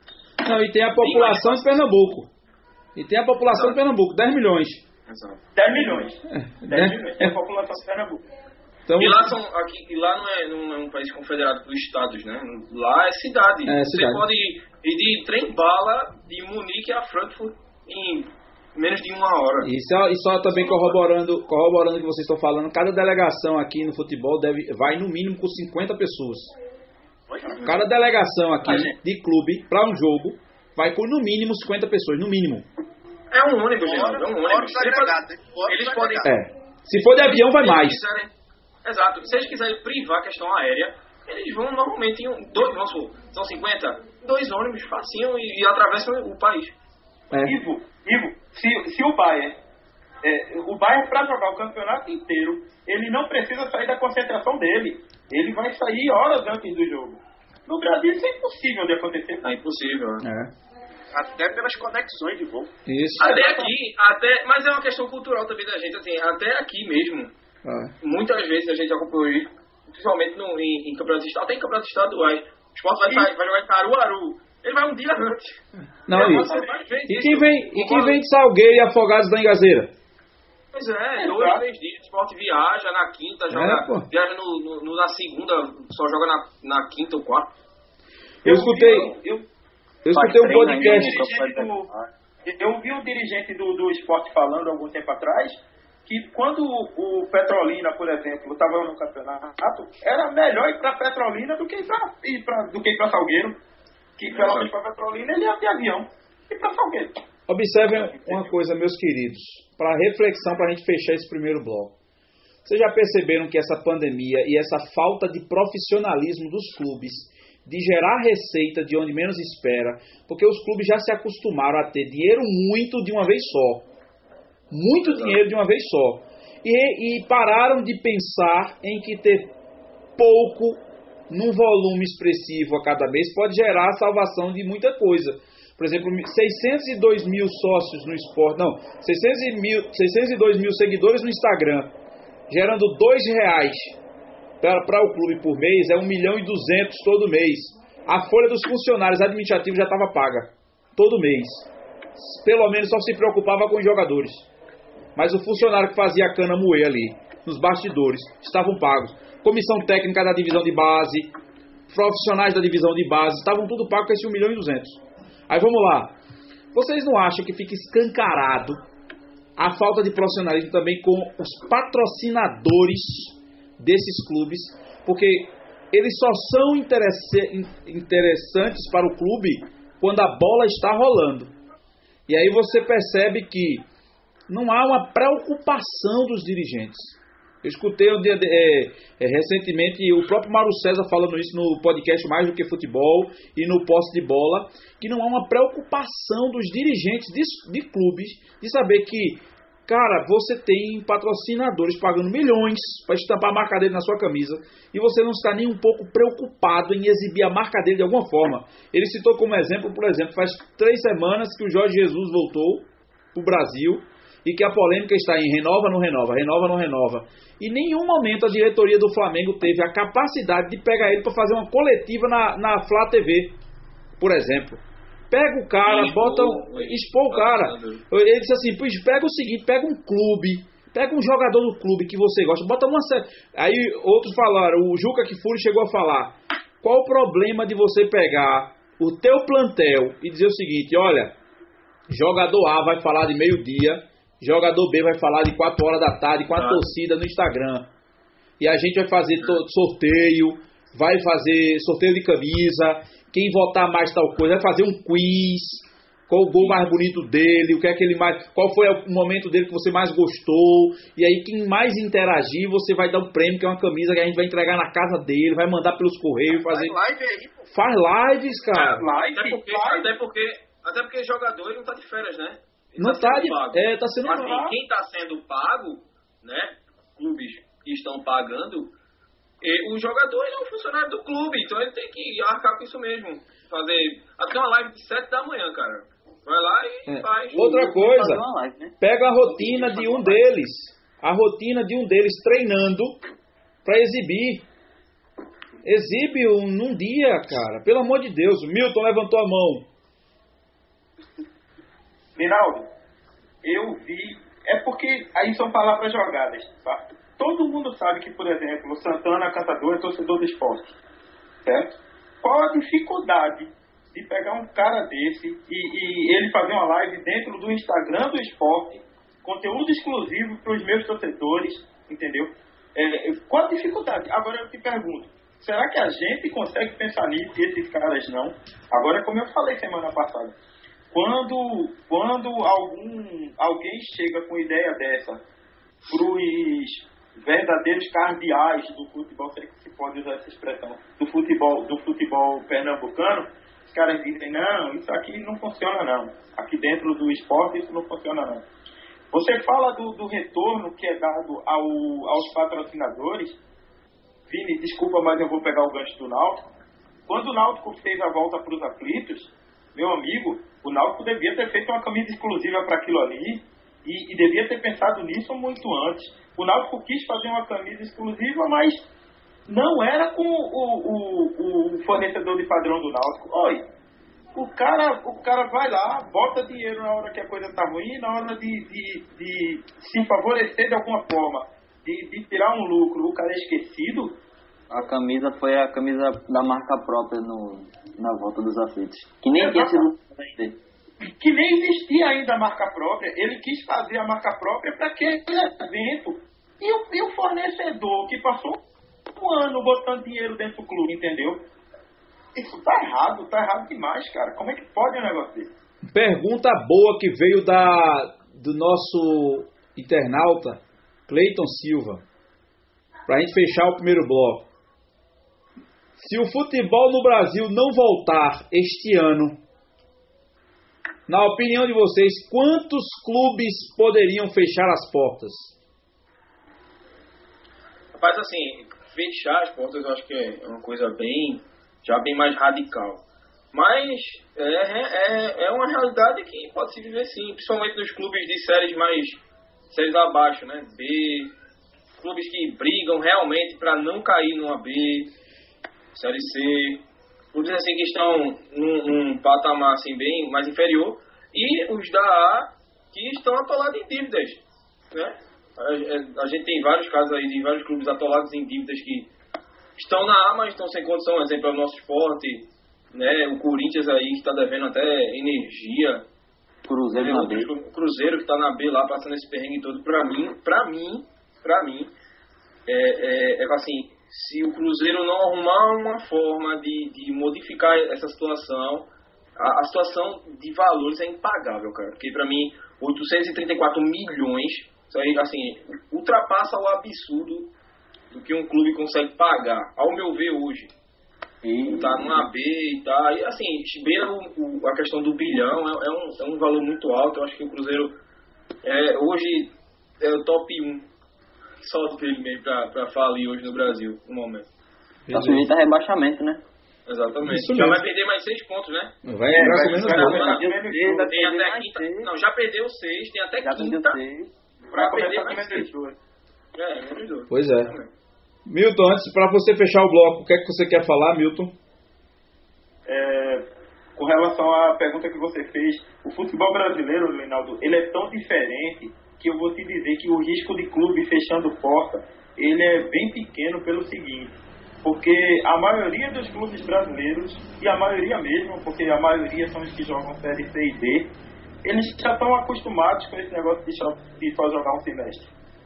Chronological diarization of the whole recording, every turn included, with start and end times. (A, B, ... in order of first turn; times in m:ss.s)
0:00.4-0:02.3 A
0:01.0-0:01.8 B
0:03.0-0:04.8 A
0:03.5-0:03.8 B
0:05.1-0:05.4 B
0:05.6-0:08.2 C
0:06.3-0:07.4 A
0:08.9-0:09.3 A
0:09.0-0:19.7 B
0:13.6-0:14.2 A
0:19.6-0:26.5 A
0:20.5-0:21.0 B
0:27.3-0:27.7 D
0:27.6-0:32.6 A
0:33.3-0:36.3 B
0:33.8-0:36.3 D
0:36.2-0:38.0 A
0:37.1-0:38.3 B
0:38.8-0:46.7 B
0:47.3-0:47.6 A
0:47.4-0:49.6 C
0:50.2-0:59.5 C
0:59.4-1:00.2 B
1:00.2-1:00.5 A
1:01.1-1:02.7 D
1:02.8-1:03.3 A
1:03.2-1:03.7 C
1:03.2-1:07.3 B
1:07.6-1:07.9 A
1:08.0-1:18.2 B
1:16.1-1:19.9 A
1:16.1-1:16.9 C
1:20.7-1:27.5 B
1:21.2-1:21.6 C
1:23.5-1:24.1 A
1:28.4-1:29.1 A
1:28.4-1:29.4 C
1:30.0-1:31.3 A
1:30.1-1:32.1 E
1:30.5-1:31.9 C
1:32.4-1:43.6 C
1:44.2-1:47.2 C
1:44.3-1:44.7 B
1:47.5-1:51.9 A
1:52.6-2:03.9 A
2:04.7-2:09.5 A
2:05.0-2:05.4 B
2:10.2-2:21.9 A
2:22.5-2:24.0 A
2:24.6-2:34.5 A
2:35.1-2:41.3 A
2:41.9-2:46.1 A
2:46.7-2:48.8 A
2:49.6-3:01.5 A
3:02.3-3:03.8 A
3:04.5-3:43.6 A
3:44.2-4:01.3 A
3:45.8-3:48.0 B
4:02.1-4:07.9 A
4:06.6-4:06.8 B
4:08.6-4:27.0 A
4:26.5-4:27.7 D
4:27.7-4:29.1 A
4:28.7-4:30.1 C
4:29.1-4:38.9 B
4:33.0-4:34.7 A
4:39.6-4:47.7 B
4:47.0-4:48.4 A
4:47.5-4:49.0 E
4:49.0-4:53.2 A
4:49.6-4:50.4 E
4:53.8-4:54.6 A
4:55.8-4:59.9 A
5:02.4-5:02.9 C
5:03.6-5:10.9 C
5:11.6-5:30.5 C
5:31.1-5:35.4 C
5:36.1-5:48.6 C
5:49.3-5:53.6 C
5:54.5-5:56.7 C
5:57.3-6:09.0 C
6:09.7-6:13.8 C
6:14.5-6:24.4 C
6:24.9-6:30.8 E
6:29.6-6:30.1 C
6:31.2-6:38.8 C
6:39.4-6:41.6 C
6:42.5-6:45.7 C
6:46.1-6:52.2 A
6:53.3-6:54.7 A
6:56.2-6:59.6 A
7:01.3-7:05.7 A
7:08.1-7:13.2 B
7:13.7-7:21.5 B
7:22.2-7:25.3 B
7:26.1-7:39.3 B
7:40.0-7:46.2 B
7:46.8-7:47.7 E
7:47.1-7:52.1 B
7:52.9-8:07.7 B
8:08.3-8:10.9 B
8:11.6-8:12.4 E
8:11.9-8:18.1 B
8:18.8-8:21.1 B
8:21.8-8:24.7 B
8:25.3-8:25.7 A
8:25.3-8:26.6 E
8:27.1-8:34.2 B
8:27.4-8:28.0 A
8:29.2-8:30.5 A
8:29.5-8:31.4 C
8:30.0-8:32.4 E
8:33.6-8:34.5 E
8:34.9-8:36.2 C
8:34.9-8:35.9 B
8:36.7-8:38.1 B
8:37.5-8:37.9 A
8:38.7-8:41.7 A
8:43.0-9:01.3 C
9:01.8-9:05.5 C